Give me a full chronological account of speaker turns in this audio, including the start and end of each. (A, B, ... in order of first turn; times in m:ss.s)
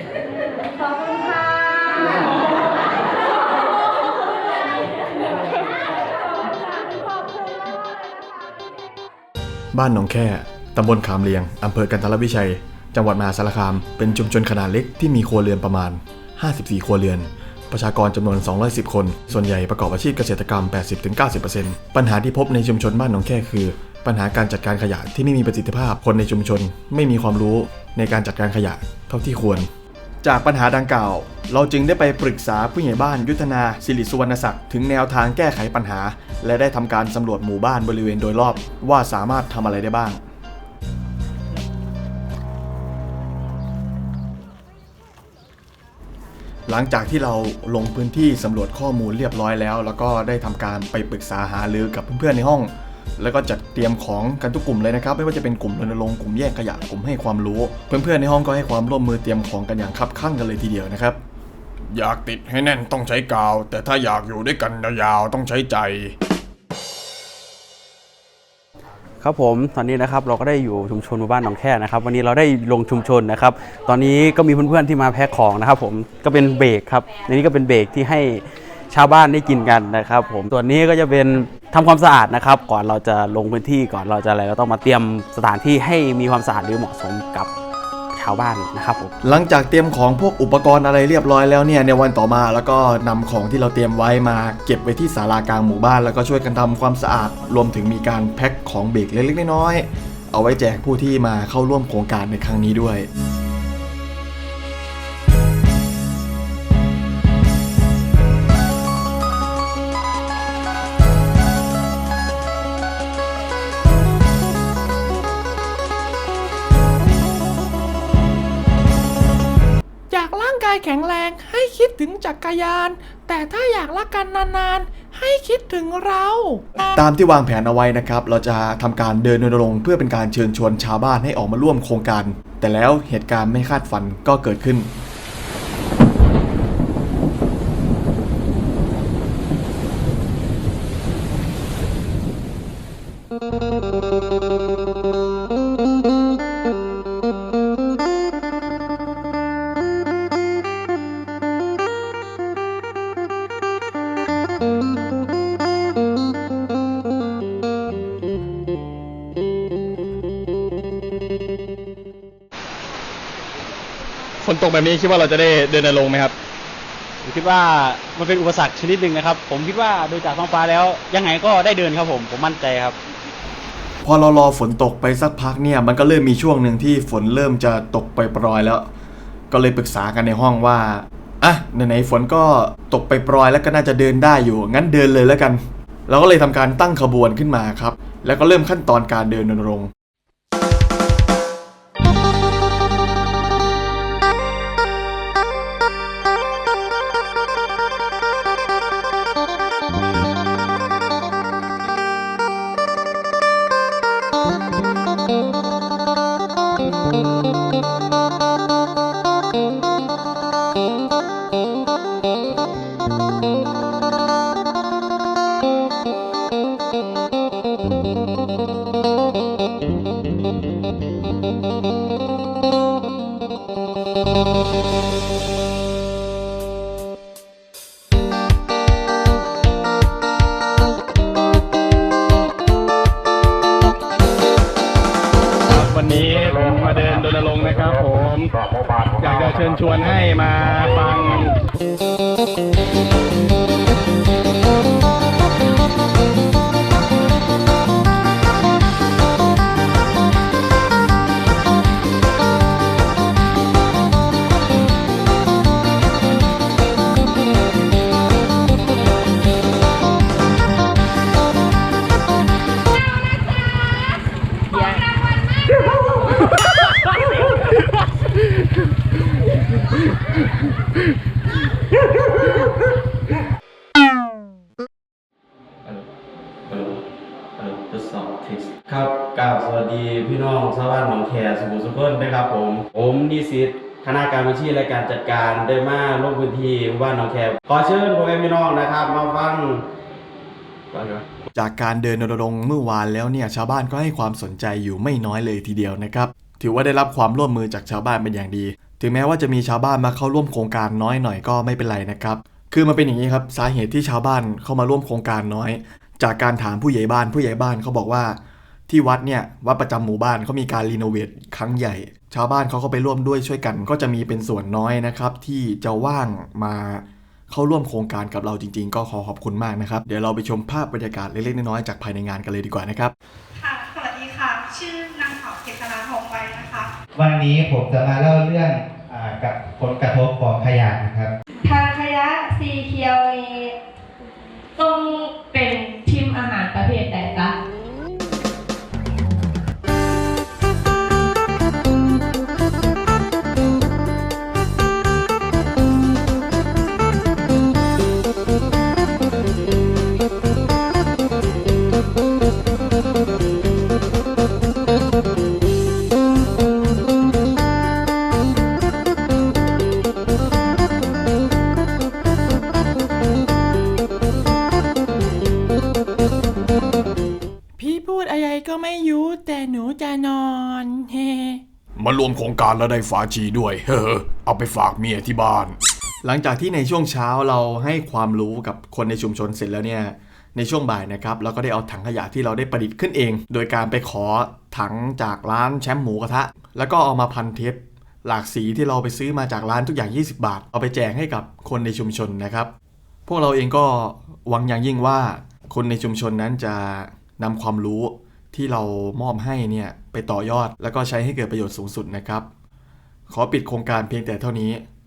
0:00.6-0:02.5 A
0:09.7-0:29.7 B
0:30.2-0:40.2 B
0:46.7-1:01.2 B
1:01.9-1:06.1 B
1:09.2-1:27.5 C
1:28.1-1:29.1 C
1:29.2-1:43.1 B
2:00.1-2:06.6 D
2:06.9-2:14.9 B
2:44.4-2:46.2 E
2:47.2-2:53.0 C
2:54.0-2:58.9 B
2:59.5-3:09.9 B
3:56.0-3:56.3 E
3:57.0-3:58.2 E
3:59.5-4:01.4 E
4:36.7-4:37.0 C
4:37.6-4:49.8 C
4:50.9-4:51.2 C
4:51.5-5:08.4 B
5:08.9-5:23.1 B
5:23.6-5:26.9 F
5:27.2-5:31.3 G
5:31.6-5:33.7 A
5:34.8-5:37.5 A
6:07.8-6:11.6 D
6:12.0-6:32.7 B
6:33.2-6:42.5 B
6:43.3-6:44.8 B